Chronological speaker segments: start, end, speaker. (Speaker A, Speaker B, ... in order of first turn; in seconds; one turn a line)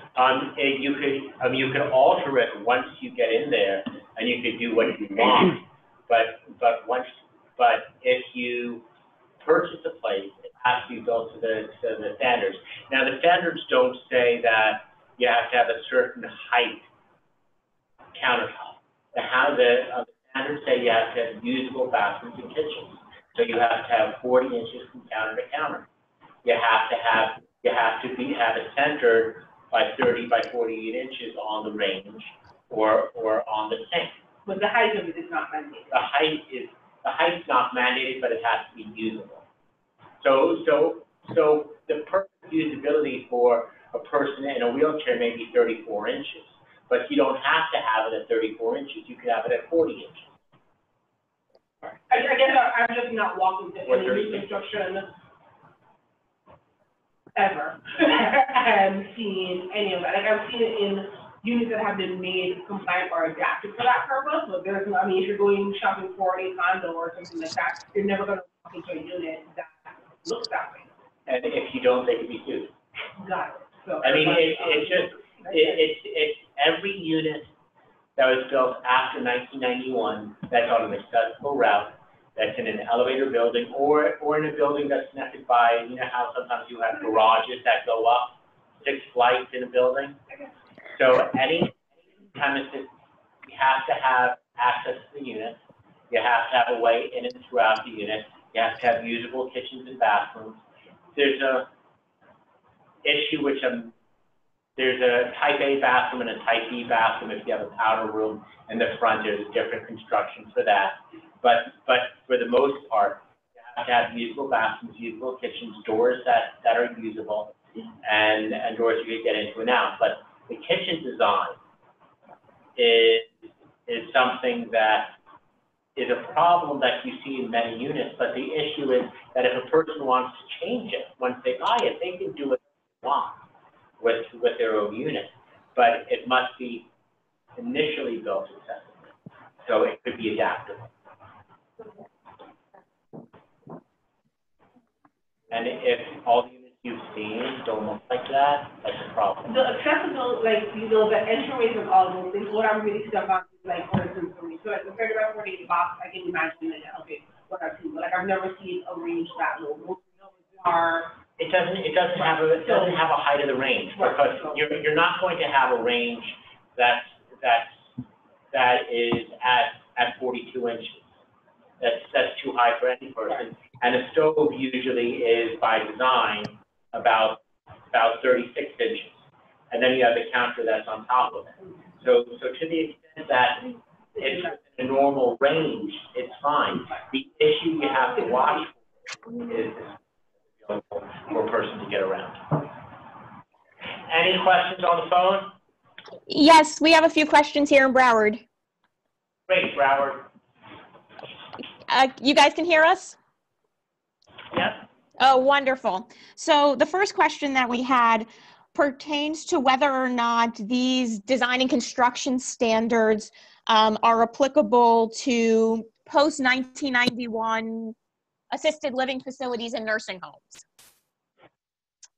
Speaker A: 0.2-8.8
Speaker A: 9.4-16.9
Speaker A: 18.1-25.9
Speaker A: 26.4-34.2
Speaker B: 34.5-36.0
Speaker A: 35.9-39.5
Speaker A: 40.2-50.3
Speaker B: 52.1-55.1
Speaker A: 53.9-54.5
Speaker B: 57.4-70.9
Speaker A: 71.3-72.8
Speaker B: 73.2-75.8
Speaker A: 74.0-77.5
Speaker A: 78.2-90.2
Speaker A: 91.0-92.9
Speaker A: 93.5-95.6
Speaker A: 96.1-100.6
Speaker A: 101.2-101.7
Speaker A: 103.0-103.9
Speaker A: 104.8-121.6
Speaker A: 122.8-125.2
Speaker A: 126.0-133.4
Speaker A: 134.0-136.9
Speaker A: 137.6-140.9
Speaker A: 145.5-149.5
Speaker B: 149.5-161.2
Speaker A: 161.4-167.9
Speaker B: 162.6-162.9
Speaker B: 163.9-164.6
Speaker A: 168.5-171.1
Speaker A: 171.8-190.0
Speaker A: 190.6-192.6
Speaker A: 194.1-195.6
Speaker C: 196.3-198.4
Speaker A: 199.5-200.3
Speaker C: 201.9-203.2
Speaker A: 204.5-204.8
Speaker C: 205.2-217.9
Speaker C: 218.5-220.6